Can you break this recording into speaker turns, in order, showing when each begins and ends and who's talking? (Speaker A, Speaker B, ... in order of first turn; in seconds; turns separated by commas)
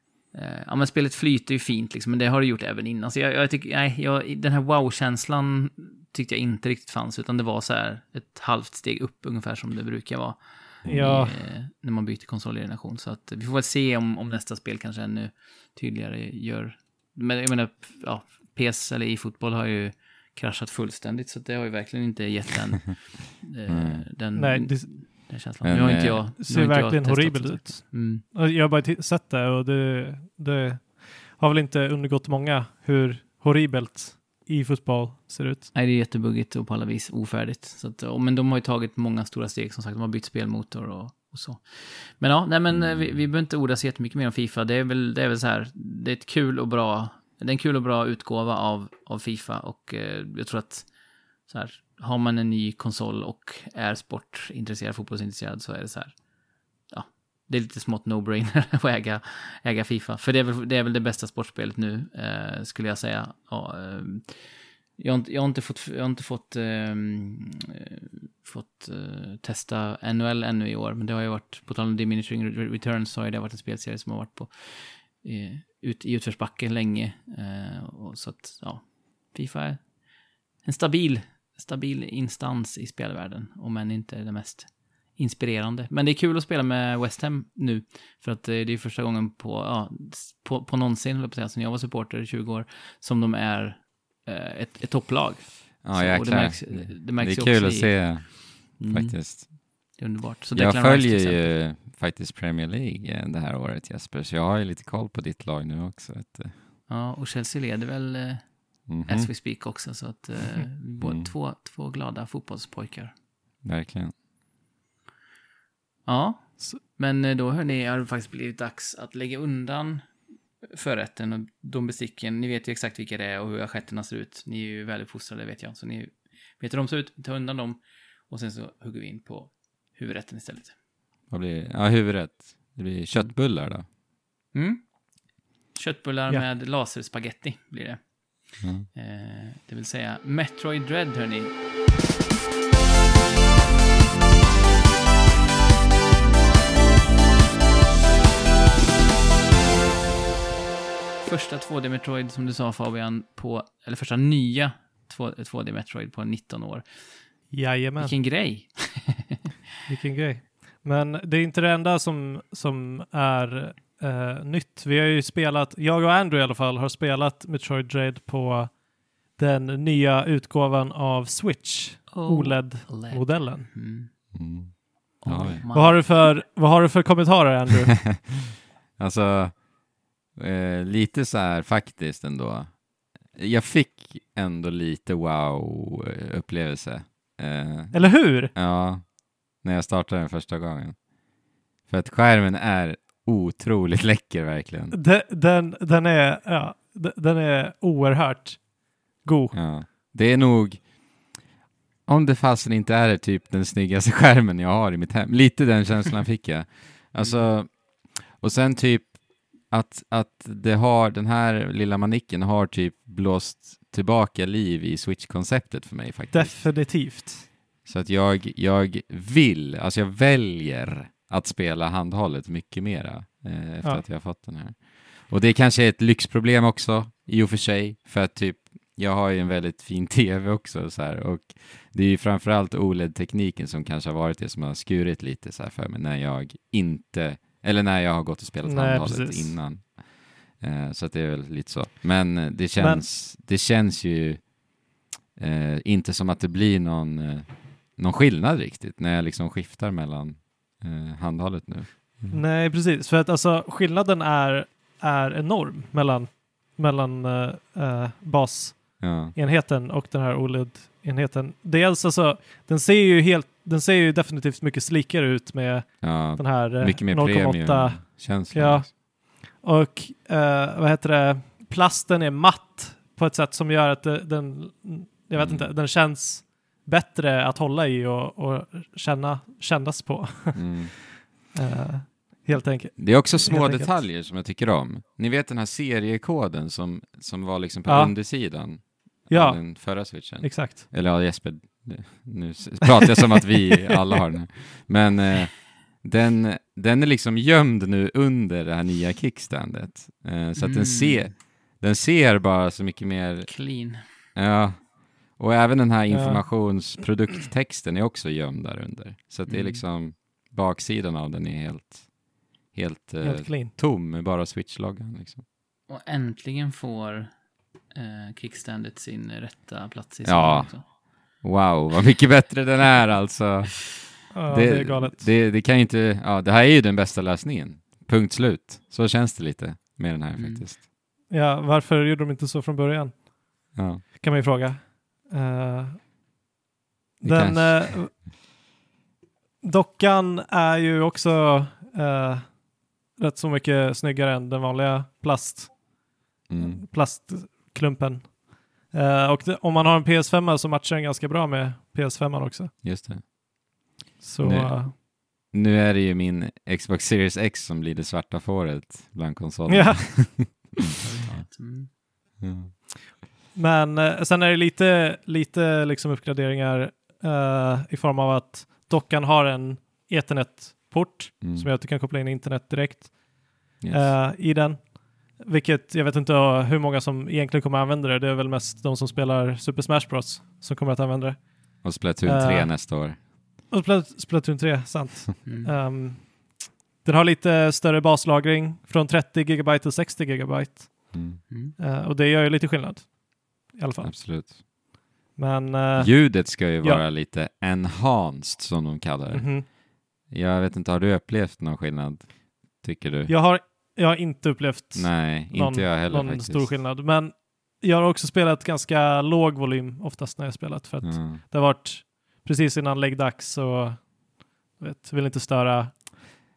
Speaker A: 0.3-28.2, Speaker B: 10.8-11.2, Speaker C: 10.9-11.4, Speaker B: 23.7-24.1, Speaker C: 24.3-35.7, Speaker B: 25.6-26.2, Speaker A: 35.7-56.2, Speaker B: 42.7-43.2, Speaker A: 56.8-67.7, Speaker A: 68.4-101.6, Speaker B: 95.8-99.5, Speaker B: 100.5-106.5, Speaker A: 106.9-113.1, Speaker B: 108.9-109.3, Speaker B: 111.0-111.3, Speaker B: 113.6-114.2, Speaker A: 116.1-130.8, Speaker B: 131.3-133.9, Speaker A: 134.5-141.6, Speaker B: 138.6-138.9, Speaker A: 151.2-159.4, Speaker C: 157.5-158.2, Speaker C: 159.9-173.7, Speaker A: 172.1-174.1, Speaker B: 174.3-175.7, Speaker A: 175.2-176.3, Speaker C: 175.7-178.1, Speaker B: 179.0-191.1, Speaker C: 187.9-188.5, Speaker B: 191.8-195.0, Speaker C: 194.9-199.7, Speaker B: 199.5-201.4, Speaker B: 202.1-216.8, Speaker A: 207.2-207.5, Speaker C: 216.3-217.5, Speaker B: 217.8-244.6, Speaker C: 238.6-239.6, Speaker C: 242.8-243.0, Speaker B: 245.3-252.4, Speaker C: 252.3-281.0, Speaker B: 259.0-259.3, Speaker B: 266.0-268.9, Speaker B: 275.4-275.7, Speaker B: 280.6-281.0, Speaker C: 281.5-283.9, Speaker B: 283.0-315.4, Speaker C: 287.9-288.7, Speaker C: 289.3-290.8, Speaker A: 300.6-301.3, Speaker A: 303.5-304.2, Speaker C: 306.1-306.9, Speaker A: 309.5-309.8, Speaker C: 313.2-313.7, Speaker A: 315.9-320.9, Speaker B: 320.2-330.8, Speaker C: 324.3-325.3, Speaker A: 330.4-330.7, Speaker C: 331.3-336.0, Speaker B: 333.7-334.1, Speaker C: 337.2-338.1, Speaker B: 337.2-338.2, Speaker C: 339.6-342.6, Speaker C: 343.1-345.9, Speaker B: 346.5-346.8, Speaker C: 346.6-352.7, Speaker B: 352.8-353.3, Speaker C: 354.2-354.9, Speaker B: 354.4-360.7, Speaker C: 359.7-360.7, Speaker A: 361.0-361.9, Speaker B: 362.4-362.7, Speaker C: 363.6-394.1, Speaker B: 371.4-371.7, Speaker B: 373.8-374.2, Speaker B: 381.8-383.2, Speaker A: 385.4-385.7, Speaker B: 391.1-391.4, Speaker A: 391.5-391.8, Speaker B: 394.0-394.6, Speaker C: 395.4-397.0, Speaker B: 396.0-403.4, Speaker C: 399.3-399.6, Speaker C: 403.3-416.3, Speaker B: 404.9-406.8, Speaker B: 411.0-411.4